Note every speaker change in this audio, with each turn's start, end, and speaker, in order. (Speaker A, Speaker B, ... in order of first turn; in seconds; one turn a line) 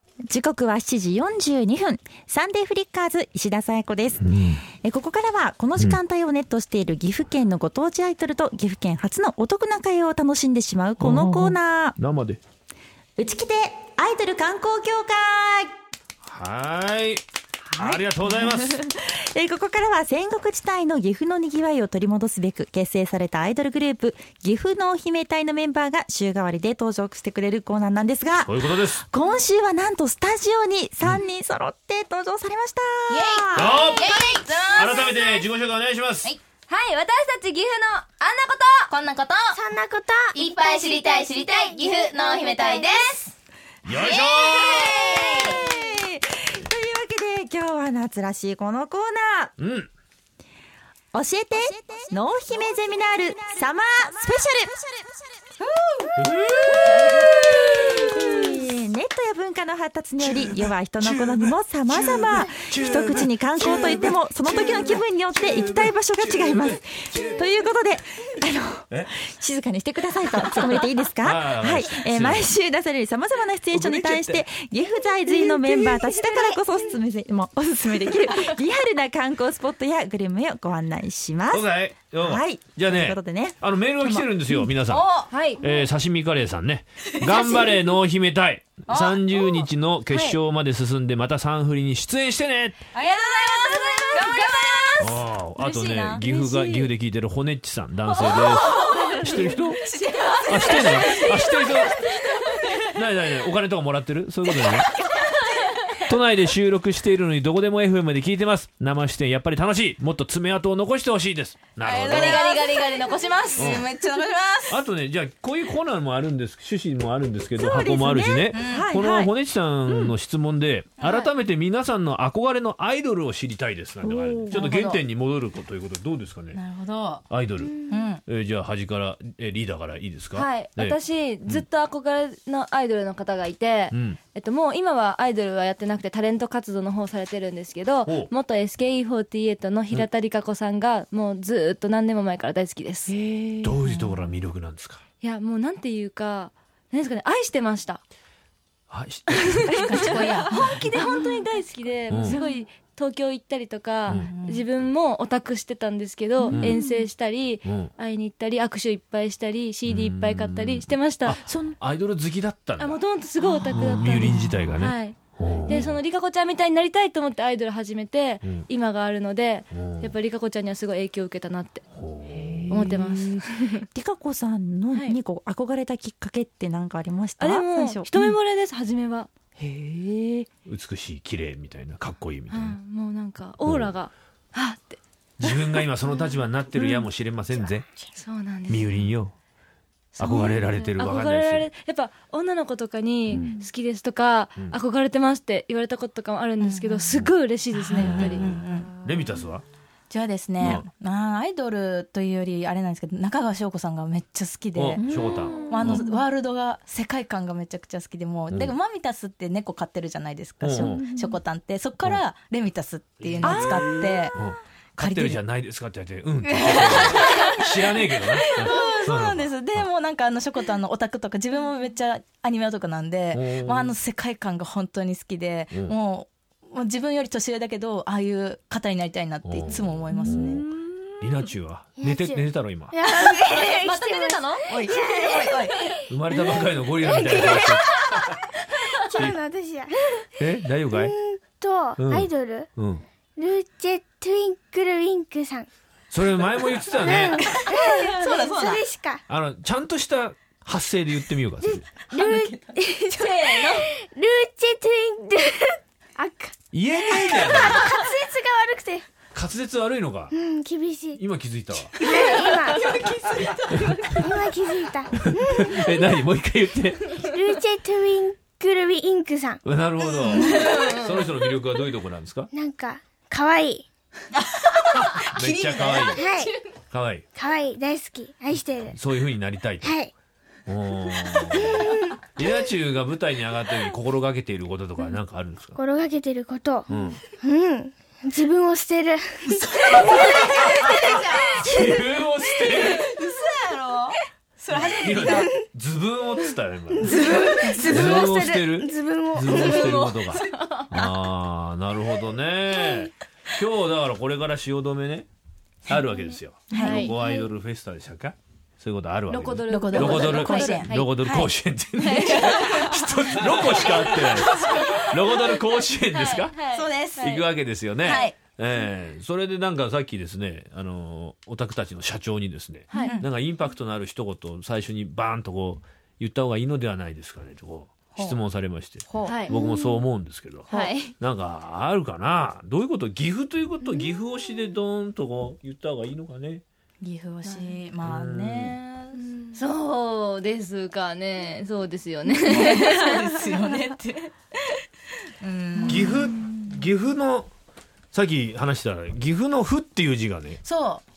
Speaker A: 0.3-4.2
Speaker B: 4.2-4.6
Speaker A: 4.8-11.9
Speaker B: 11.0-12.4
Speaker A: 13.2-15.7
Speaker B: 16.2-17.2
Speaker A: 17.7-33.8
Speaker B: 17.8-18.8
Speaker B: 28.4-29.0
Speaker C: 33.1-35.4
Speaker B: 33.5-34.1
Speaker D: 33.8-34.7
Speaker B: 34.7-36.3
Speaker D: 36.7-38.9
Speaker C: 38.9-39.6
Speaker E: 39.5-40.4
Speaker C: 40.3-43.3
Speaker D: 40.8-41.2
Speaker E: 41.5-42.9
Speaker B: 43.8-45.1
Speaker C: 43.9-45.6
Speaker A: 45.4-49.5
Speaker B: 49.6-49.9
Speaker A: 51.1-54.8
Speaker B: 56.2-58.1
Speaker A: 57.6-81.7
Speaker B: 60.2-67.5
Speaker B: 71.2-72.5
Speaker B: 73.7-74.5
Speaker B: 81.5-85.0
Speaker A: 82.2-83.5
Speaker C: 84.9-85.5
Speaker D: 85.3-85.6
Speaker B: 85.6-92.8
Speaker C: 87.0-87.7
Speaker C: 88.9-89.6
Speaker D: 90.1-90.4
Speaker C: 92.9-96.9
Speaker D: 93.5-94.5
Speaker B: 95.0-99.8
Speaker C: 98.1-103.3
Speaker B: 100.5-102.0
Speaker D: 101.0-101.3
Speaker B: 102.9-104.9
Speaker C: 104.5-106.0
Speaker B: 106.1-112.5
Speaker C: 111.8-114.8
Speaker D: 112.1-113.0
Speaker B: 113.6-113.9
Speaker B: 114.7-126.6
Speaker A: 117.6-119.3
Speaker C: 118.5-118.9
Speaker C: 121.0-121.3
Speaker A: 124.0-124.6
Speaker C: 124.5-125.0
Speaker C: 126.5-127.3
Speaker B: 127.3-131.6
Speaker C: 127.8-128.2
Speaker D: 130.3-143.1
Speaker B: 133.9-134.2
Speaker B: 138.1-138.3
Speaker A: 143.1-144.3
Speaker B: 143.6-145.0
Speaker D: 145.2-148.0
Speaker B: 148.9-150.0
Speaker D: 149.3-161.4
Speaker C: 149.7-151.1
Speaker B: 152.1-152.4
Speaker B: 154.1-154.3
Speaker C: 154.1-154.6
Speaker B: 156.5-156.8
Speaker E: 156.7-157.1
Speaker B: 157.6-157.9
Speaker B: 159.8-163.0
Speaker A: 161.4-161.8
Speaker D: 162.8-171.8
Speaker B: 163.7-166.0
Speaker B: 169.7-170.1
Speaker B: 171.9-172.9
Speaker A: 172.3-178.1
Speaker D: 172.7-173.8
Speaker D: 174.9-175.2
Speaker D: 177.4-179.3
Speaker A: 179.6-180.5
Speaker B: 180.7-182.8
Speaker D: 182.5-185.8
Speaker B: 183.6-184.0
Speaker B: 185.4-187.8
Speaker D: 188.2-189.0
Speaker B: 188.7-189.3
Speaker B: 190.2-191.7
Speaker D: 190.2-198.6
Speaker B: 193.3-193.6
Speaker C: 196.6-197.2
Speaker C: 197.7-198.9
Speaker B: 197.9-199.6
Speaker C: 200.1-205.0
Speaker B: 200.6-200.9
Speaker B: 204.8-206.0
Speaker A: 205.0-206.1
Speaker C: 205.7-214.4
Speaker B: 210.6-211.1
Speaker A: 210.8-211.4
Speaker B: 213.4-219.9
Speaker A: 213.4-214.3
Speaker C: 215.0-215.4
Speaker C: 216.4-230.6
Speaker B: 223.3-223.9
Speaker B: 229.4-230.7
Speaker B: 231.2-232.9
Speaker E: 232.0-238.2
Speaker D: 233.4-234.7
Speaker C: 234.7-235.9
Speaker B: 236.1-238.3
Speaker E: 238.9-240.3
Speaker B: 240.4-241.1
Speaker E: 240.9-242.7
Speaker B: 242.0-243.0
Speaker E: 243.4-245.7
Speaker B: 246.1-247.5
Speaker E: 246.9-249.2
Speaker C: 247.3-248.8
Speaker B: 249.3-251.8
Speaker E: 251.6-259.1
Speaker C: 252.1-253.9
Speaker B: 256.7-257.9
Speaker B: 259.3-260.3
Speaker E: 260.3-261.2
Speaker B: 261.2-262.0
Speaker E: 262.0-263.0
Speaker C: 262.0-264.2
Speaker B: 263.7-264.3
Speaker E: 264.2-266.1
Speaker B: 265.1-267.1
Speaker E: 267.2-269.6
Speaker B: 269.6-272.5
Speaker C: 270.1-271.2
Speaker E: 272.5-273.8
Speaker C: 274.4-276.5
Speaker B: 274.9-276.3
Speaker E: 276.1-276.5
Speaker B: 276.9-277.2
Speaker E: 277.3-279.0
Speaker B: 278.9-280.0
Speaker E: 279.8-280.1
Speaker B: 280.7-285.8
Speaker E: 281.6-282.1
Speaker E: 285.8-290.4
Speaker B: 286.9-287.2
Speaker C: 289.5-291.9
Speaker B: 290.2-293.0
Speaker C: 292.5-295.5
Speaker E: 292.6-293.0
Speaker B: 294.7-297.2
Speaker E: 295.3-295.6
Speaker E: 296.9-300.1
Speaker C: 297.0-298.4
Speaker B: 297.8-305.3
Speaker C: 299.4-301.2
Speaker B: 305.9-316.6
Speaker C: 306.7-307.2
Speaker D: 306.7-307.2
Speaker D: 309.3-311.2
Speaker C: 309.6-311.5
Speaker D: 312.0-313.0
Speaker C: 312.1-315.5
Speaker D: 313.8-315.0
Speaker D: 316.1-317.4
Speaker C: 316.7-317.5
Speaker B: 317.2-336.6
Speaker C: 318.0-318.4
Speaker D: 322.9-323.2
Speaker C: 322.9-323.3
Speaker C: 328.1-328.4
Speaker C: 329.0-329.5
Speaker D: 329.2-329.6
Speaker C: 330.7-331.0
Speaker D: 330.7-331.1
Speaker C: 337.0-339.3
Speaker D: 337.4-337.8
Speaker B: 338.0-338.8
Speaker D: 339.4-343.3
Speaker C: 342.4-344.3
Speaker C: 345.4-346.2
Speaker B: 345.9-347.5
Speaker B: 348.1-350.6
Speaker C: 350.6-351.0